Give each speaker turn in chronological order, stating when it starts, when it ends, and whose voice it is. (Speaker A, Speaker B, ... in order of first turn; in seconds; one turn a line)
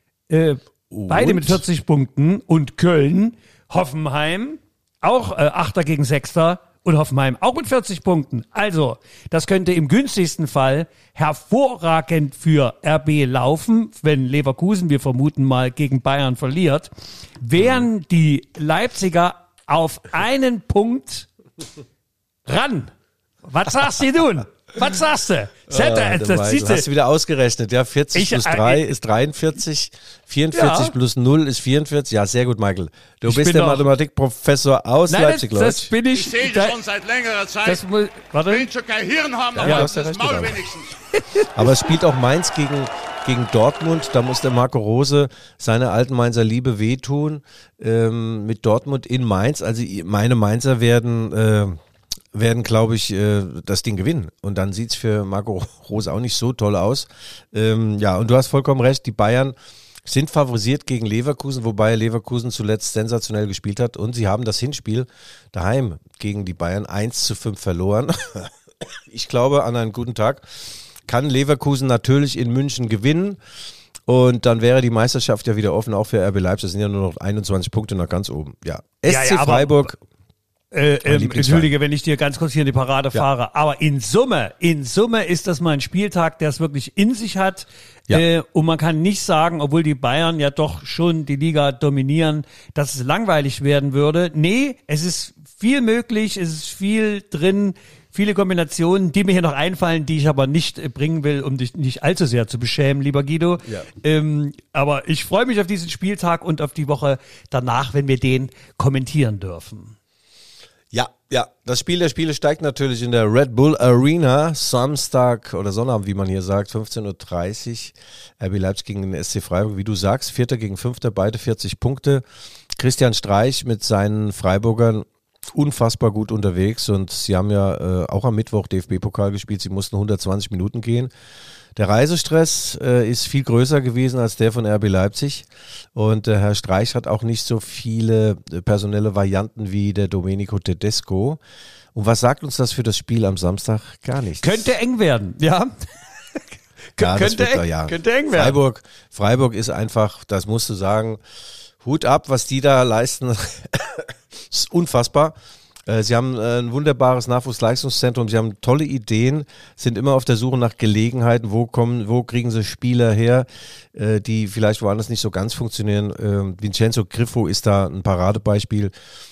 Speaker A: 0.3-21.3
Speaker B: 0.9-1.6
Speaker A: 22.5-22.9
Speaker A: 23.4-26.9
Speaker B: 25.7-35.9
Speaker A: 28.1-28.9
Speaker A: 30.5-30.9
Speaker A: 33.2-33.9
Speaker A: 35.1-36.8
Speaker C: 36.1-37.8
Speaker A: 37.6-38.7
Speaker C: 38.5-40.9
Speaker B: 39.5-40.6
Speaker A: 39.6-39.9
Speaker A: 41.1-41.7
Speaker B: 41.5-51.8
Speaker B: 52.3-68.5
Speaker B: 69.1-70.5
Speaker B: 71.1-73.4
Speaker B: 74.1-80.0
Speaker A: 79.1-79.9
Speaker A: 80.7-110.0
Speaker B: 81.0-81.7
Speaker B: 110.9-122.2
Speaker B: 122.8-131.1
Speaker B: 131.8-141.4
Speaker B: 141.9-144.7
Speaker A: 144.4-148.6
Speaker B: 147.0-151.2
Speaker B: 151.8-155.3
Speaker B: 155.9-168.9